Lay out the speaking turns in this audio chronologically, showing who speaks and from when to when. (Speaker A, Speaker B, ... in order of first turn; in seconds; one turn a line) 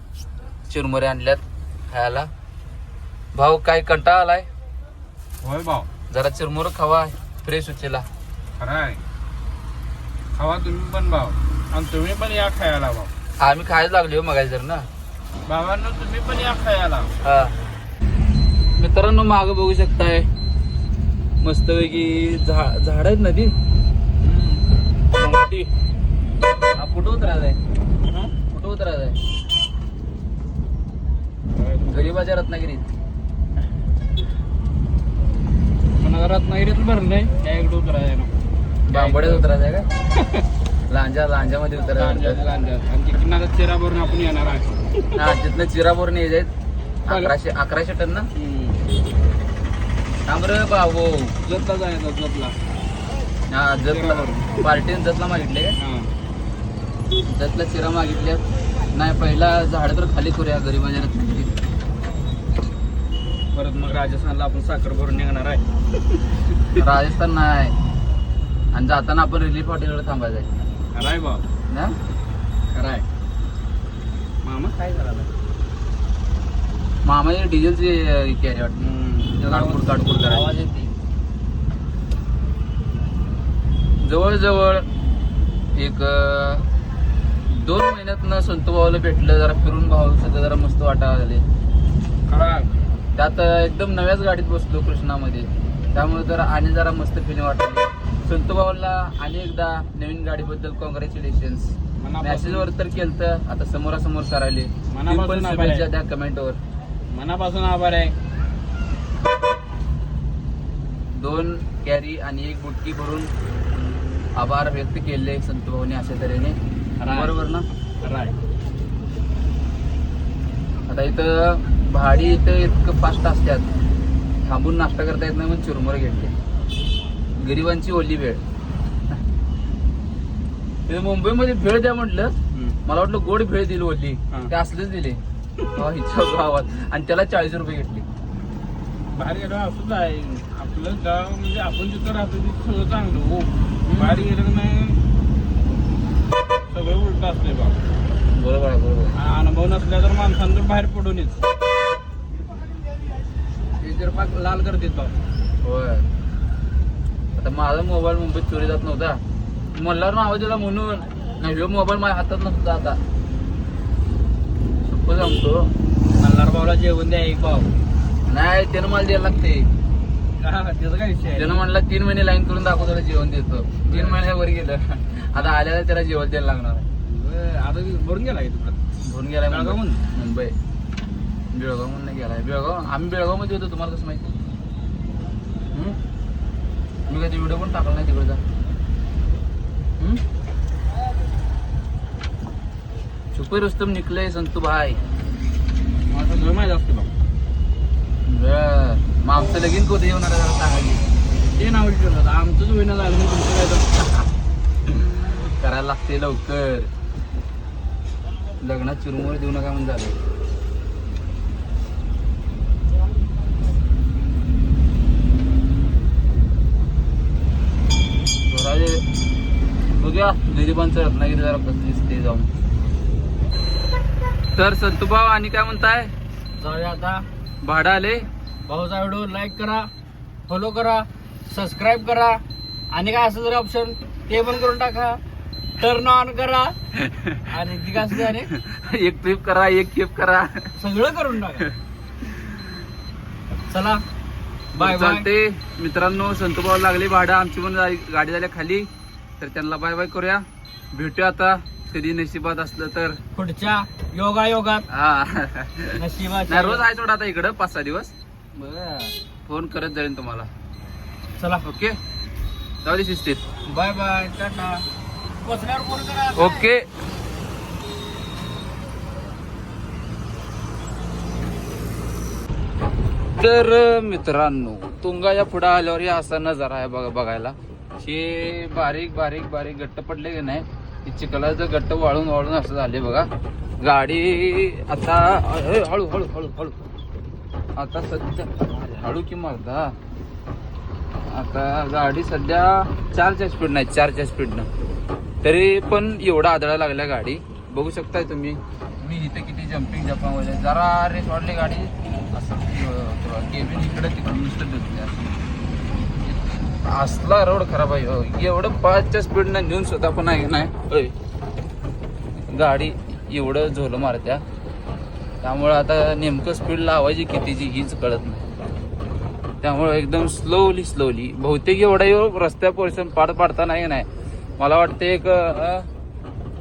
Speaker A: 0.7-2.3
Speaker A: 3.3-4.5
Speaker B: 5.4-5.9
Speaker A: 6.1-8.1
Speaker B: 8.6-9.0
Speaker B: 10.3-13.1
Speaker A: 13.4-14.9
Speaker B: 15.4-17.1
Speaker A: 17.2-17.6
Speaker A: 18.8-20.3
Speaker A: 21.4-23.5
Speaker A: 25.1-25.7
Speaker A: 26.8-27.6
Speaker B: 28.0-28.3
Speaker A: 28.5-29.2
Speaker B: 31.5-32.1
Speaker A: 31.8-32.9
Speaker B: 36.0-38.3
Speaker A: 38.9-39.9
Speaker B: 38.9-39.4
Speaker B: 40.2-40.4
Speaker A: 40.9-42.4
Speaker B: 41.9-45.2
Speaker A: 45.1-46.5
Speaker A: 47.1-48.3
Speaker B: 47.1-47.3
Speaker B: 48.3-48.8
Speaker A: 50.2-51.3
Speaker B: 51.4-52.5
Speaker A: 53.5-55.8
Speaker B: 53.8-54.5
Speaker B: 55.8-56.1
Speaker A: 57.2-58.4
Speaker A: 58.9-61.5
Speaker B: 63.5-66.2
Speaker A: 66.7-67.8
Speaker A: 68.7-70.5
Speaker B: 70.9-71.4
Speaker B: 72.7-73.0
Speaker B: 74.4-75.3
Speaker A: 77.0-78.8
Speaker B: 78.8-80.9
Speaker A: 79.4-80.5
Speaker A: 84.0-84.8
Speaker A: 85.8-86.7
Speaker A: 87.5-91.4
Speaker B: 92.3-92.7
Speaker A: 93.2-106.6
Speaker B: 102.0-102.7
Speaker B: 104.9-105.8
Speaker B: 107.1-108.1
Speaker A: 111.2-113.3
Speaker A: 114.3-116.6
Speaker B: 117.0-117.3
Speaker A: 117.1-117.7
Speaker B: 118.0-118.3
Speaker A: 120.9-123.7
Speaker A: 124.4-126.3
Speaker A: 127.4-128.4
Speaker A: 130.9-132.3
Speaker B: 132.5-132.8
Speaker A: 132.8-135.2
Speaker A: 135.7-138.1
Speaker B: 139.1-145.0
Speaker A: 143.8-144.3
Speaker B: 146.7-147.8
Speaker A: 148.3-149.1
Speaker B: 149.1-151.4
Speaker B: 153.8-155.1
Speaker A: 155.6-156.1
Speaker A: 157.3-159.2
Speaker A: 159.7-163.0
Speaker A: 164.8-165.7
Speaker B: 166.2-167.7
Speaker A: 168.3-169.7
Speaker B: 170.4-171.6
Speaker A: 171.3-176.8
Speaker B: 173.8-174.2
Speaker B: 177.1-178.8
Speaker A: 179.0-180.5
Speaker B: 179.5-180.0
Speaker A: 181.5-184.3
Speaker A: 187.1-188.4
Speaker A: 193.3-195.0
Speaker B: 196.1-197.1
Speaker A: 198.2-201.0
Speaker B: 201.5-203.9
Speaker A: 204.9-206.9
Speaker A: 208.6-210.2
Speaker A: 218.5-219.0
Speaker A: 219.9-222.5
Speaker A: 224.6-226.1
Speaker B: 226.6-227.2
Speaker A: 227.6-228.3
Speaker B: 228.7-229.9
Speaker B: 230.5-232.4
Speaker B: 232.9-235.2
Speaker B: 235.8-236.7
Speaker A: 237.0-237.4
Speaker B: 237.5-238.5
Speaker A: 238.0-240.7
Speaker B: 240.8-241.6
Speaker B: 243.7-244.0
Speaker A: 244.7-248.9
Speaker B: 244.8-245.2
Speaker A: 249.4-253.2
Speaker B: 253.4-254.8
Speaker A: 254.9-258.1
Speaker B: 256.0-256.7
Speaker B: 258.5-259.1
Speaker A: 259.4-260.5
Speaker B: 261.4-261.6
Speaker A: 261.6-262.0
Speaker A: 262.8-263.4
Speaker B: 263.7-264.8
Speaker B: 265.4-266.5
Speaker A: 266.3-266.9
Speaker A: 273.4-283.3
Speaker A: 283.8-286.8
Speaker A: 287.8-289.9
Speaker A: 291.2-294.7
Speaker A: 295.4-305.3
Speaker A: 306.8-311.1
Speaker A: 312.5-314.4
Speaker A: 315.4-318.4
Speaker A: 319.6-324.1
Speaker A: 324.6-325.9